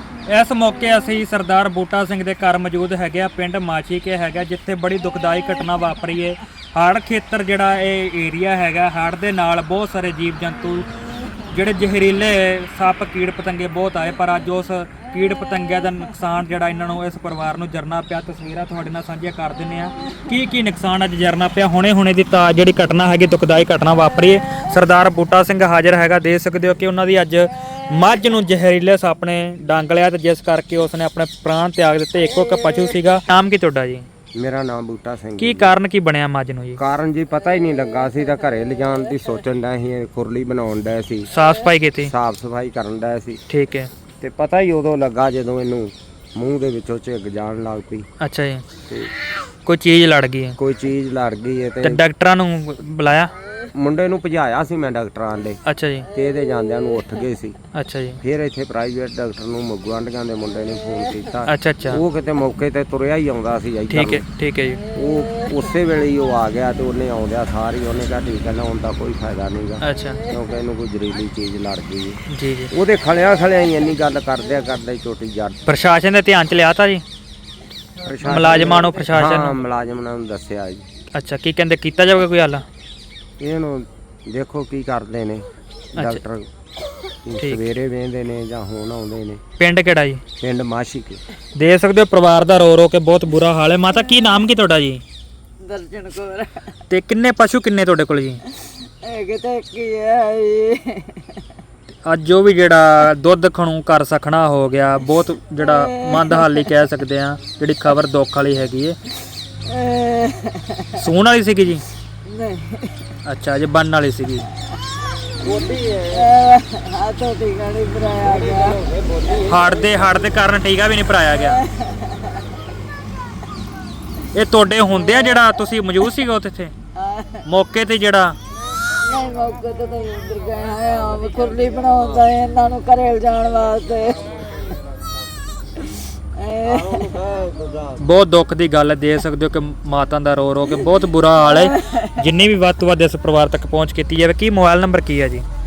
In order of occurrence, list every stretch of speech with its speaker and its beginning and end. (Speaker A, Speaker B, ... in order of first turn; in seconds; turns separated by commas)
Speaker A: 0.2-10.9, Speaker A: 11.5-34.0, Speaker B: 34.4-35.7, Speaker A: 35.4-36.8, Speaker B: 36.8-41.3, Speaker A: 41.3-42.1, Speaker B: 42.0-43.4, Speaker A: 43.5-43.9, Speaker B: 44.2-48.1, Speaker A: 48.2-48.6, Speaker A: 49.6-50.5, Speaker B: 50.6-52.0, Speaker A: 51.8-53.3, Speaker B: 53.7-55.6, Speaker A: 55.6-56.1, Speaker B: 56.1-57.6, Speaker A: 57.7-58.2, Speaker B: 58.2-64.2, Speaker A: 61.5-62.0, Speaker A: 63.9-64.8, Speaker B: 64.9-75.6, Speaker A: 69.8-70.2, Speaker A: 72.3-72.7, Speaker A: 75.7-77.0, Speaker B: 78.0-80.8, Speaker A: 78.2-79.6, Speaker A: 81.1-82.6, Speaker B: 83.4-86.5, Speaker A: 86.0-86.2, Speaker B: 87.2-89.4, Speaker A: 87.4-87.6, Speaker A: 89.6-90.2, Speaker B: 90.4-91.2, Speaker A: 91.5-95.0, Speaker C: 95.6-96.6, Speaker A: 96.9-98.4, Speaker C: 98.8-101.3, Speaker A: 102.0-109.0, Speaker C: 105.8-106.4, Speaker C: 109.7-110.9, Speaker A: 110.9-111.8, Speaker C: 112.3-113.0, Speaker A: 113.2-114.5, Speaker B: 115.4-116.3, Speaker C: 116.1-118.8, Speaker B: 118.3-119.5, Speaker A: 119.4-121.6, Speaker C: 121.5-122.3, Speaker A: 124.3-126.7, Speaker C: 127.0-127.4, Speaker A: 127.5-128.3, Speaker C: 129.0-134.4, Speaker B: 131.8-132.2, Speaker C: 136.3-137.1, Speaker B: 136.6-138.0, Speaker A: 138.0-145.4, Speaker C: 141.6-142.1